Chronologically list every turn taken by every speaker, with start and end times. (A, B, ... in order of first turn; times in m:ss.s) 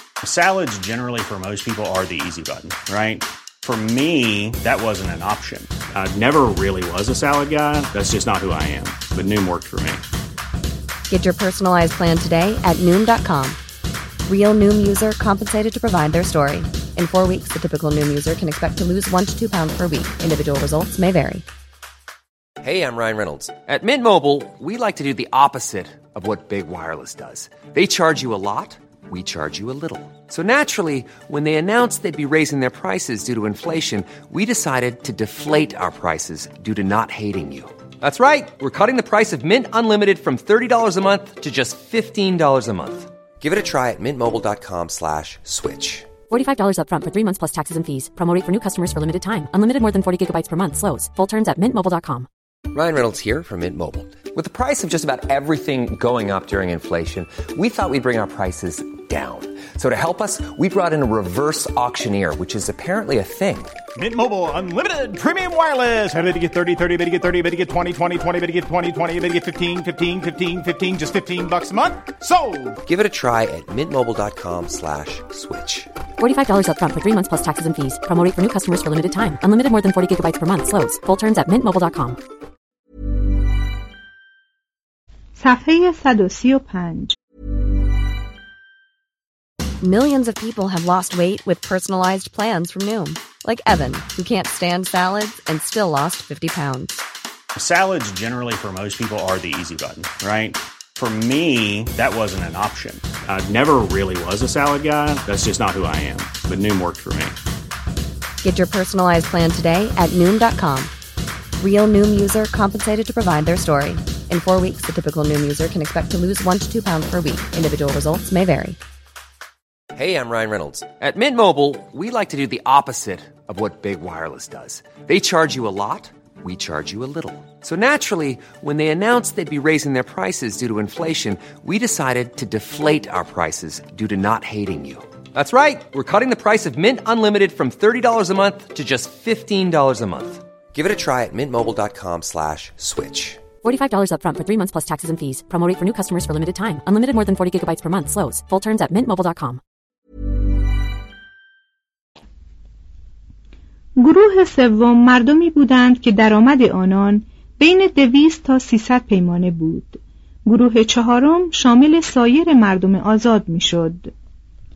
0:00.2-0:10.0 A
0:11.1-0:13.6 B
0:14.2-0:21.4 B
0:22.6-0:46.1 C
0:46.3-0:52.3 D
0:52.7-1:03.7 C
1:04.0-1:12.8 E
1:12.9-1:15.9 C
1:16.2-1:22.2 D
1:25.4-1:27.2 F
1:29.8-1:37.0 B
1:37.6-1:47.4 A
1:48.4-1:50.9 B
1:51.6-1:58.8 B
2:00.0-2:23.4 C
2:23.6-2:29.6 D
2:34.0-2:44.1 F